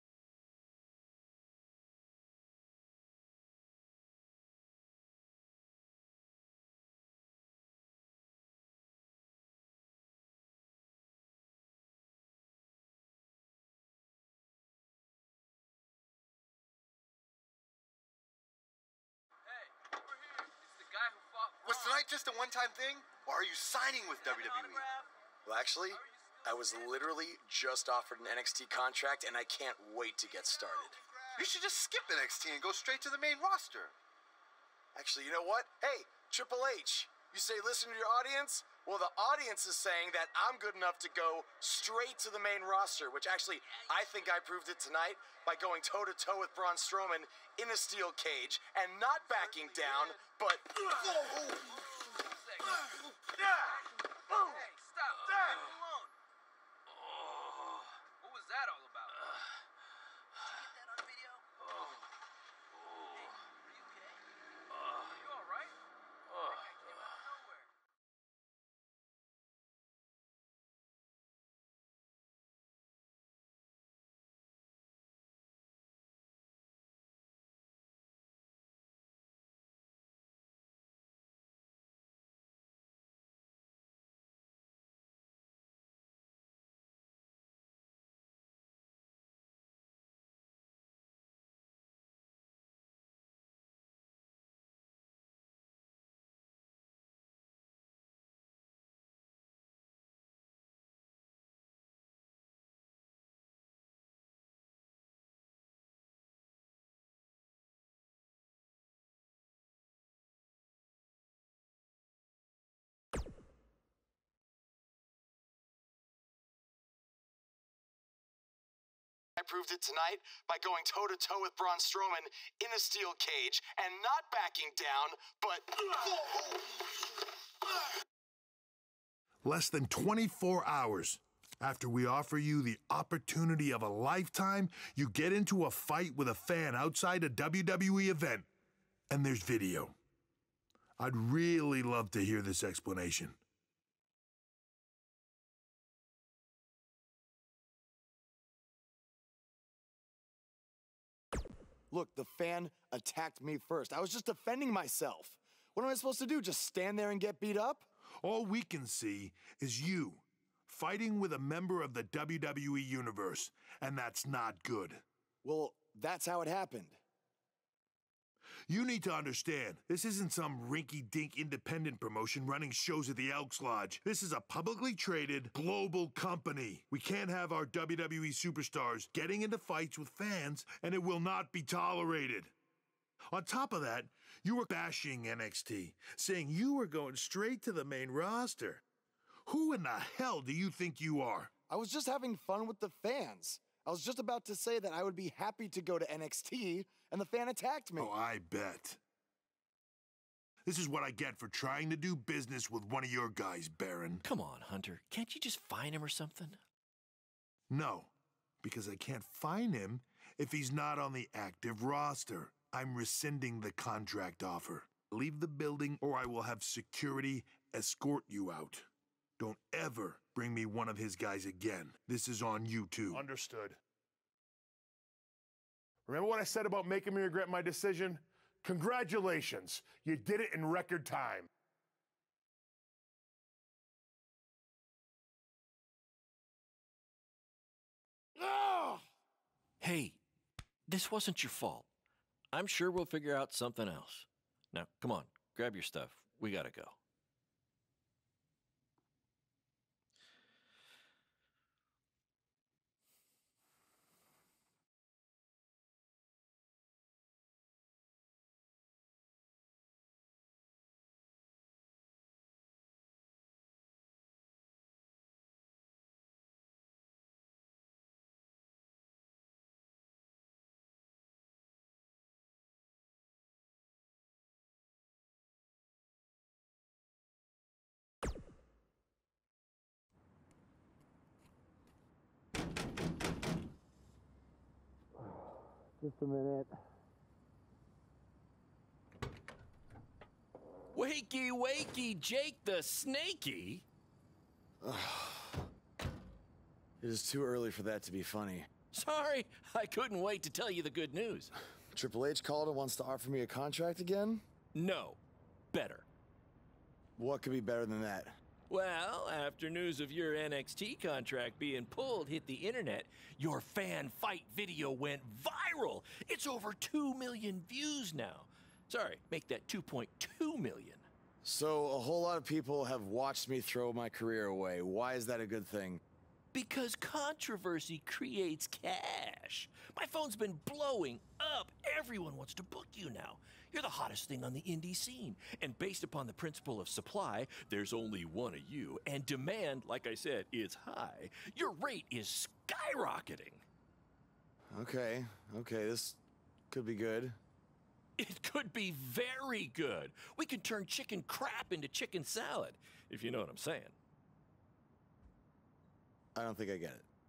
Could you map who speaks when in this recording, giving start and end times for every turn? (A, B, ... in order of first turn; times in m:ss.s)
0:21.6-0:24.9 A
0:25.4-0:31.0 B
0:31.4-0:33.9 A
0:34.9-0:51.7 B
1:59.4-2:06.6 B
2:09.4-2:18.5 C
2:19.1-2:20.0 C
2:21.0-2:23.4 C
2:31.9-2:37.9 B
2:38.2-2:45.0 C
2:45.4-2:47.0 B
2:48.7-3:02.5 C
3:03.3-3:08.8 C
3:09.4-3:11.5 C
3:11.7-3:18.1 B
3:18.0-3:19.0 C
3:20.6-3:24.2 C
3:24.2-3:26.6 D
3:27.7-3:28.1 C
3:28.6-3:38.9 C
3:39.4-3:43.2 C
3:43.1-3:43.8 E
3:46.1-3:51.5 E
3:59.8-4:00.2 D
4:00.9-4:01.9 D
4:02.5-4:07.0 D
4:46.0-4:46.8 B
4:50.9-4:53.8 D
4:54.8-4:55.6 B
4:57.0-4:58.7 B
4:58.9-5:01.5 D
5:01.9-5:04.4 B
5:04.7-5:05.2 D
5:05.7-5:06.1 D
5:07.2-5:08.4 B
5:08.7-5:21.0 D
5:21.4-5:26.0 B
5:26.5-5:43.6 D
5:44.7-5:46.2 B
5:46.7-5:47.4 B
5:48.2-5:53.9 D
5:56.3-5:57.0 B